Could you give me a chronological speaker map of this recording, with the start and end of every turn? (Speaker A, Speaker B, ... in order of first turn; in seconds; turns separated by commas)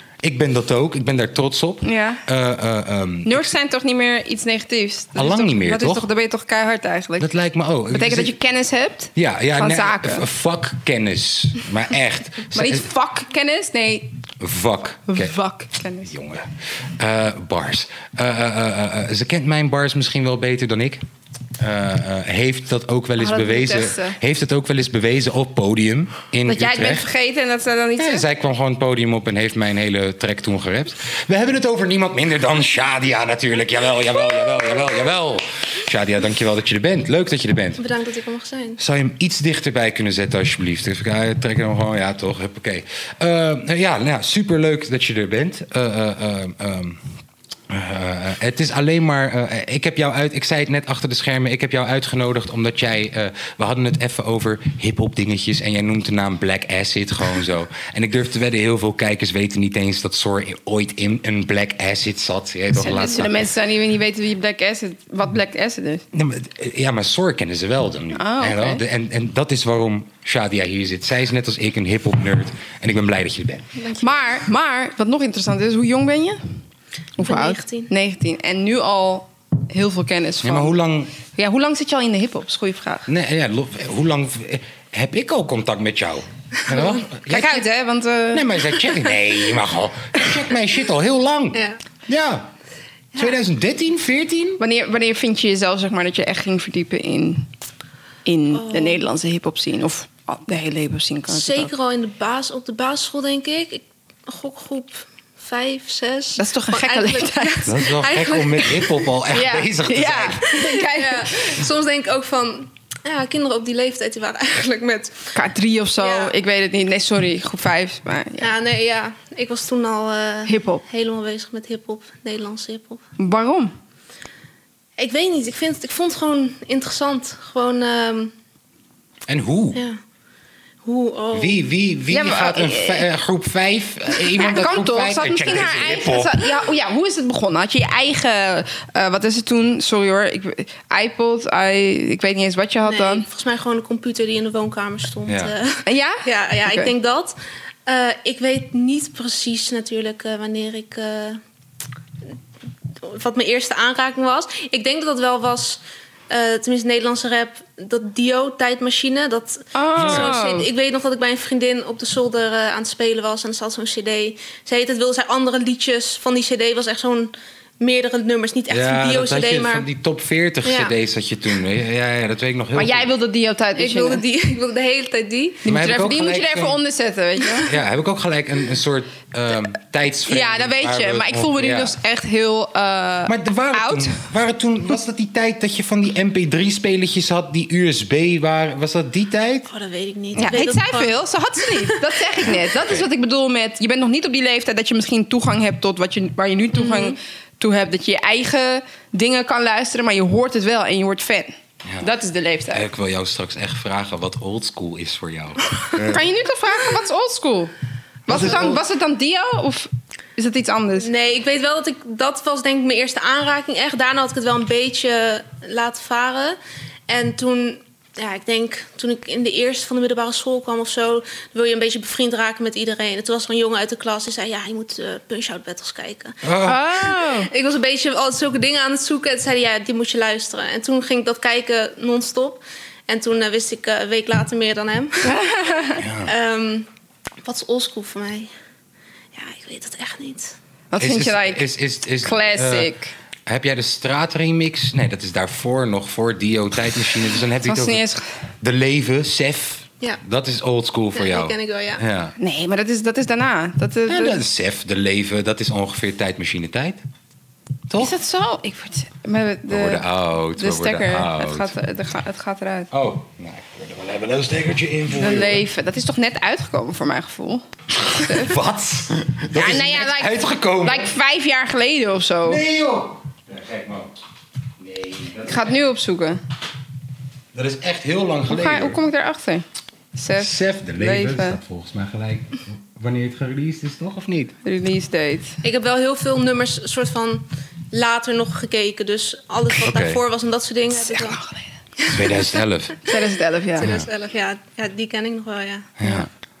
Speaker A: 0.2-3.5, Speaker B: 1.8-2.2, Speaker B: 3.2-7.3, Speaker A: 5.2-6.1, Speaker A: 7.2-8.4, Speaker B: 7.9-10.2, Speaker A: 9.2-12.9, Speaker B: 12.5-14.1, Speaker A: 14.4-15.3, Speaker B: 15.1-16.1, Speaker A: 16.1-21.0, Speaker A: 21.6-27.1, Speaker B: 23.2-24.2, Speaker B: 26.4-28.2, Speaker A: 28.0-37.8, Speaker C: 37.8-38.8, Speaker A: 38.8-47.0, Speaker A: 47.7-63.4, Speaker B: 62.7-66.0, Speaker A: 66.1-73.7, Speaker B: 68.1-68.8, Speaker C: 73.8-74.4, Speaker B: 74.0-76.4, Speaker B: 77.2-80.8, Speaker C: 77.2-77.9, Speaker A: 80.4-81.1, Speaker B: 81.3-83.0, Speaker A: 83.1-87.7, Speaker C: 86.7-87.0, Speaker B: 86.8-88.6, Speaker A: 88.3-92.5, Speaker A: 93.2-94.6, Speaker B: 94.6-97.5, Speaker B: 98.2-101.7, Speaker C: 98.5-99.0, Speaker C: 101.3-109.0, Speaker B: 106.4-107.7, Speaker A: 107.7-110.4, Speaker B: 109.3-111.6, Speaker C: 110.5-115.3, Speaker B: 115.3-118.5, Speaker C: 116.0-116.3, Speaker C: 118.4-123.0, Speaker B: 120.5-120.8, Speaker B: 123.2-123.7, Speaker C: 125.0-128.3, Speaker A: 129.3-129.8, Speaker C: 130.8-131.6, Speaker A: 131.3-136.5, Speaker B: 132.1-133.1, Speaker B: 134.4-143.2, Speaker C: 142.8-151.4, Speaker A: 145.3-145.5, Speaker B: 145.8-146.9, Speaker C: 153.0-169.8, Speaker B: 159.7-160.7, Speaker A: 160.0-160.3, Speaker A: 168.7-173.1, Speaker C: 170.6-170.9, Speaker B: 172.7-174.2, Speaker C: 173.8-175.7, Speaker A: 175.7-176.8, Speaker B: 175.7-177.7, Speaker A: 177.6-181.9, Speaker B: 180.2-184.2, Speaker A: 183.2-189.7, Speaker C: 189.7-192.2, Speaker B: 190.4-202.8, Speaker A: 192.5-193.1, Speaker C: 196.7-197.1, Speaker A: 202.7-206.3, Speaker B: 206.0-207.7, Speaker B: 208.2-211.1, Speaker A: 208.3-208.8, Speaker C: 211.0-226.4, Speaker A: 226.4-226.8, Speaker B: 226.6-227.5, Speaker C: 227.1-235.3, Speaker B: 235.2-236.0, Speaker A: 236.0-236.3, Speaker C: 236.2-236.9, Speaker C: 237.4-238.5, Speaker C: 239.3-240.6, Speaker B: 240.9-241.6, Speaker A: 241.0-242.9, Speaker B: 242.2-243.1, Speaker A: 243.5-248.0, Speaker B: 247.6-248.3, Speaker A: 248.6-252.3, Speaker C: 251.1-252.0, Speaker B: 252.4-254.4, Speaker A: 254.1-257.0, Speaker A: 257.9-258.1, Speaker B: 258.0-260.0, Speaker A: 259.7-261.7, Speaker B: 260.6-262.9, Speaker A: 262.9-265.6, Speaker B: 265.1-267.6, Speaker A: 268.0-271.1, Speaker B: 268.2-268.5, Speaker B: 269.5-272.6, Speaker A: 272.4-274.1, Speaker A: 274.8-275.7, Speaker B: 275.4-276.4, Speaker A: 277.5-279.0, Speaker B: 278.5-281.6, Speaker A: 280.4-284.5, Speaker B: 284.6-285.6, Speaker C: 285.6-291.4, Speaker A: 289.8-290.2, Speaker B: 290.9-291.6, Speaker C: 292.0-293.2, Speaker A: 292.1-293.0, Speaker B: 293.1-293.9, Speaker C: 293.8-296.1, Speaker A: 293.8-294.1, Speaker A: 296.0-296.3